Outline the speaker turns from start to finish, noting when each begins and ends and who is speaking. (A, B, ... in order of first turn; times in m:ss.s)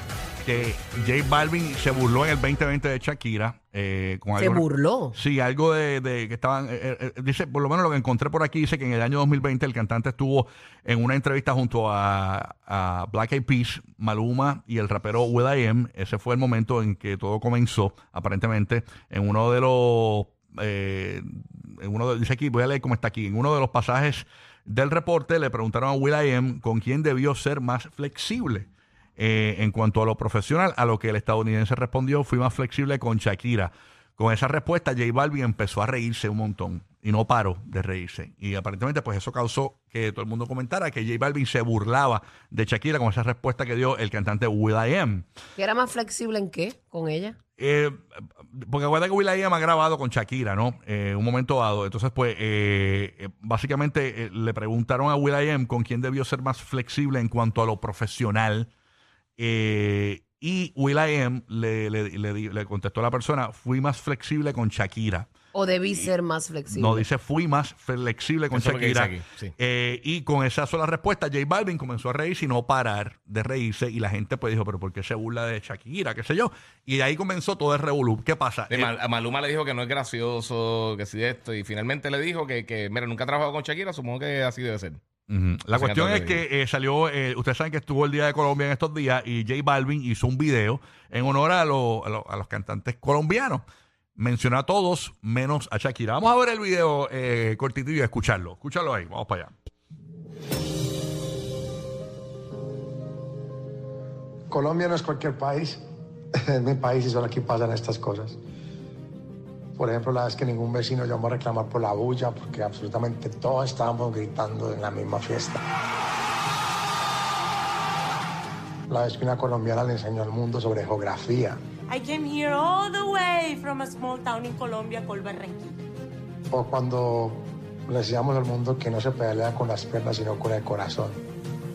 0:00.4-0:45.2 A
0:04.4-0:05.2 B
0:45.6-0:47.4 B
0:47.6-0:58.7 A
0:59.4-1:05.3 A
1:05.5-1:07.0 B
1:06.7-1:18.9 A
1:08.5-1:09.5 C
1:18.7-1:25.0 C
1:25.3-1:33.6 A
1:25.7-1:26.4 C
1:34.2-1:39.5 A
1:44.5-1:45.8 D
1:46.4-1:48.4 D
1:49.8-1:55.6 D
1:58.9-2:01.6 D
2:01.9-2:05.8 E
2:06.5-2:11.2 D